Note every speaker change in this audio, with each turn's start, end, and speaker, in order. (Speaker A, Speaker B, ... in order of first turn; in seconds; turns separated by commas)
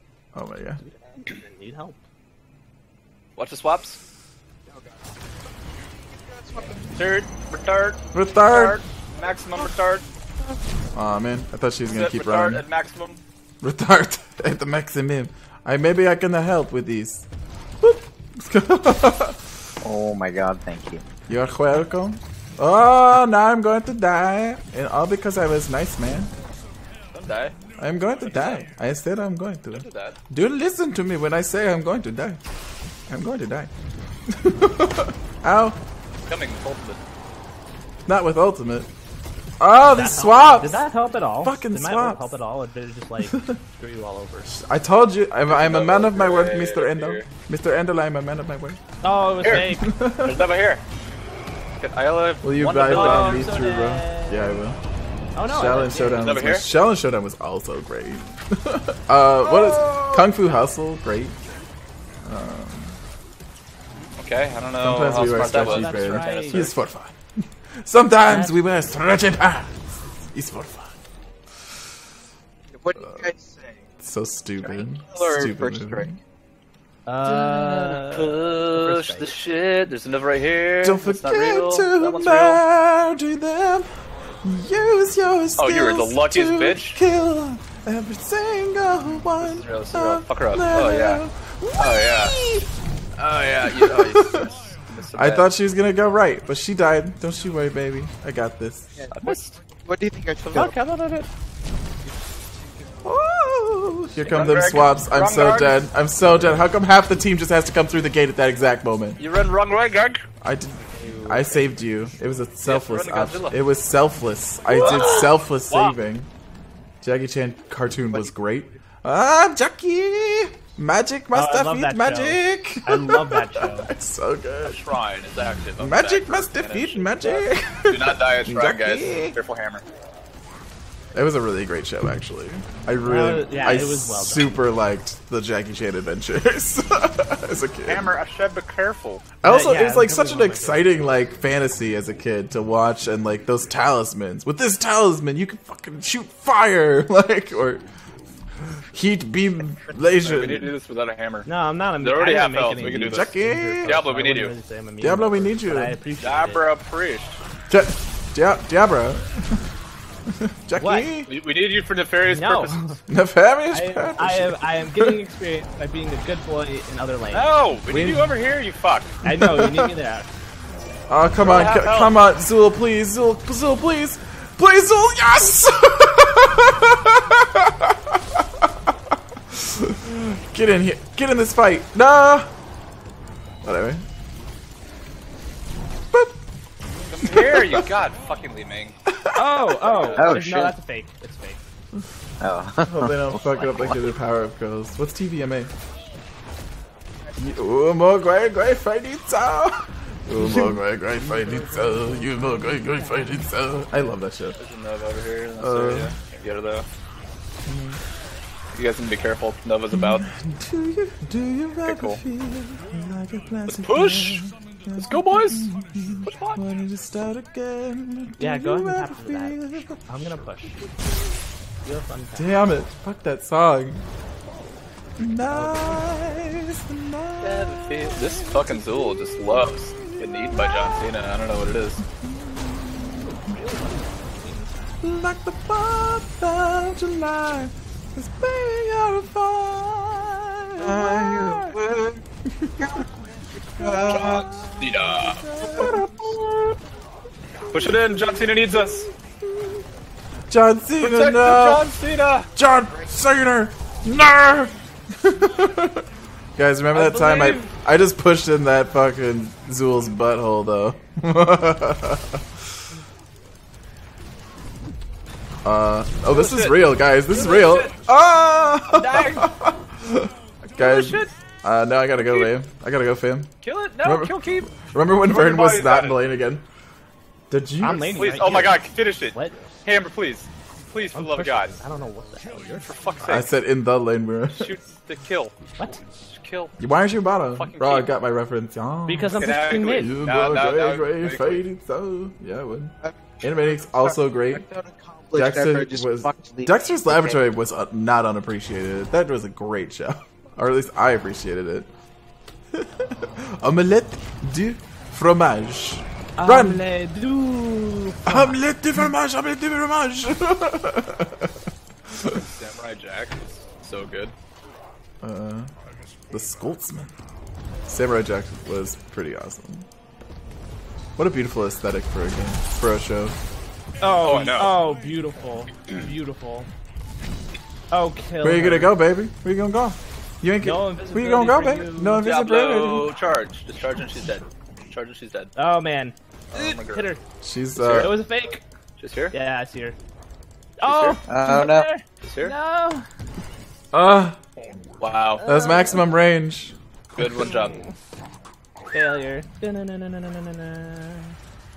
Speaker A: 0.3-0.8, Speaker B: 0.8-2.0, Speaker C: 3.4-4.0, Speaker D: 4.7-5.2, Speaker D: 6.1-7.0, Speaker C: 6.9-10.0, Speaker A: 8.1-8.8, Speaker A: 10.9-12.6, Speaker C: 11.9-13.2, Speaker A: 13.6-17.3, Speaker A: 17.8-19.4, Speaker E: 19.8-21.0, Speaker A: 21.3-26.3, Speaker C: 27.1-27.6, Speaker A: 27.8-32.4, Speaker C: 28.3-28.6, Speaker C: 29.7-30.2, Speaker A: 33.1-33.7, Speaker A: 34.3-35.8, Speaker C: 36.3-37.0, Speaker A: 38.1-38.9, Speaker A: 39.6-40.8, Speaker B: 39.8-44.6, Speaker A: 41.4-42.4, Speaker A: 43.2-43.6, Speaker A: 44.4-48.8, Speaker C: 45.5-47.3, Speaker B: 49.0-49.9, Speaker A: 49.4-50.4, Speaker C: 49.4-50.8, Speaker C: 51.8-53.6, Speaker A: 52.4-54.8, Speaker B: 52.8-54.6, Speaker B: 55.4-56.4, Speaker A: 55.4-61.4, Speaker C: 56.2-56.7, Speaker B: 59.8-60.1, Speaker A: 62.2-63.0, Speaker C: 64.2-66.8, Speaker A: 64.8-71.0, Speaker B: 65.5-66.7, Speaker B: 68.2-68.7, Speaker D: 72.7-73.8, Speaker A: 74.0-76.2, Speaker D: 74.8-76.1, Speaker B: 77.0-79.3, Speaker C: 77.2-82.6, Speaker A: 80.8-83.9, Speaker A: 84.4-92.7, Speaker C: 85.6-87.0, Speaker C: 89.0-91.2, Speaker C: 91.8-92.4, Speaker C: 93.2-95.5, Speaker A: 93.6-99.0, Speaker D: 99.0-100.8, Speaker C: 99.1-99.5, Speaker C: 100.5-101.3, Speaker D: 102.3-103.0, Speaker A: 103.0-109.2, Speaker C: 104.2-105.8, Speaker C: 109.2-110.2, Speaker A: 110.4-116.3, Speaker C: 112.6-113.6, Speaker C: 114.7-116.0, Speaker A: 117.0-125.0, Speaker B: 121.3-123.9, Speaker C: 124.6-129.8, Speaker A: 125.8-129.4, Speaker A: 131.1-138.1, Speaker B: 133.0-134.6, Speaker C: 137.8-139.3, Speaker B: 139.4-140.9, Speaker A: 139.4-147.8, Speaker A: 148.7-150.7, Speaker C: 150.2-153.3, Speaker B: 151.4-156.7, Speaker A: 152.8-154.0, Speaker C: 153.8-154.5, Speaker A: 155.0-156.0, Speaker C: 156.2-157.4, Speaker A: 157.7-159.6, Speaker A: 160.3-161.3, Speaker B: 160.8-161.1, Speaker C: 161.2-162.8, Speaker B: 162.2-163.0, Speaker A: 163.1-165.2, Speaker B: 163.7-167.5, Speaker C: 167.3-169.2, Speaker A: 167.9-168.3, Speaker B: 169.2-170.3, Speaker A: 169.2-169.9, Speaker A: 171.1-178.7, Speaker C: 171.4-172.2, Speaker A: 179.5-182.5, Speaker A: 183.6-184.0, Speaker C: 187.1-188.9, Speaker A: 187.2-187.8, Speaker A: 189.1-189.8, Speaker B: 189.3-191.6, Speaker C: 189.6-190.7, Speaker E: 190.1-190.8, Speaker E: 192.4-194.1, Speaker A: 192.8-195.7, Speaker A: 197.3-204.6, Speaker E: 200.4-200.8, Speaker B: 201.4-202.0, Speaker C: 204.6-206.8, Speaker A: 205.6-206.1, Speaker A: 207.7-208.0, Speaker C: 208.7-210.2, Speaker A: 209.9-220.0, Speaker C: 211.8-212.2, Speaker C: 213.7-215.7, Speaker C: 216.2-216.6, Speaker B: 218.4-220.8, Speaker B: 221.8-222.7, Speaker A: 222.3-224.0, Speaker A: 225.2-231.2, Speaker B: 225.4-226.2, Speaker C: 227.4-232.0, Speaker A: 232.1-233.4, Speaker B: 233.2-235.0, Speaker A: 235.0-241.7, Speaker D: 240.8-242.2, Speaker A: 242.6-243.0, Speaker D: 242.8-243.2, Speaker D: 243.7-244.5, Speaker A: 243.8-246.4, Speaker C: 244.1-245.5, Speaker D: 245.6-246.1, Speaker C: 246.3-246.8, Speaker C: 247.7-249.1, Speaker A: 247.8-249.8, Speaker A: 250.5-251.9, Speaker C: 251.0-252.5, Speaker A: 252.5-256.0, Speaker A: 256.6-262.4, Speaker B: 256.9-257.7, Speaker A: 265.6-273.5, Speaker C: 266.2-267.9, Speaker C: 268.8-269.5, Speaker C: 270.8-271.3, Speaker C: 272.2-272.5, Speaker C: 273.6-276.2, Speaker A: 274.0-276.6, Speaker A: 277.5-278.6, Speaker B: 277.8-279.8, Speaker C: 277.9-281.8, Speaker B: 281.1-282.9, Speaker C: 282.7-283.5, Speaker A: 283.2-284.7, Speaker C: 284.5-285.6, Speaker B: 285.7-286.1, Speaker C: 286.3-286.8, Speaker A: 286.8-294.6, Speaker C: 287.6-288.1, Speaker B: 289.1-290.1, Speaker C: 289.3-291.6, Speaker D: 293.0-297.4, Speaker A: 295.3-301.9, Speaker A: 302.7-306.8, Speaker B: 306.4-308.6, Speaker A: 308.2-311.5, Speaker A: 312.1-312.4, Speaker C: 312.3-314.3, Speaker A: 315.2-315.7, Speaker A: 316.3-317.1, Speaker A: 317.9-319.9, Speaker A: 321.2-323.4, Speaker B: 324.0-326.7, Speaker C: 324.2-324.8, Speaker B: 327.9-329.0, Speaker A: 328.4-333.1, Speaker B: 330.6-332.2, Speaker C: 332.2-335.5, Speaker B: 335.6-337.2, Speaker C: 336.5-337.1, Speaker A: 337.4-338.1, Speaker C: 337.8-338.2, Speaker B: 337.8-338.6, Speaker C: 339.0-339.3, Speaker B: 339.3-340.0, Speaker B: 340.8-343.1, Speaker C: 340.8-341.2, Speaker E: 341.2-341.9, Speaker C: 342.2-342.5, Speaker A: 343.9-344.4, Speaker C: 345.0-345.4, Speaker B: 345.4-346.1, Speaker A: 345.4-347.5, Speaker C: 347.1-347.8, Speaker B: 347.4-347.9, Speaker B: 348.9-351.4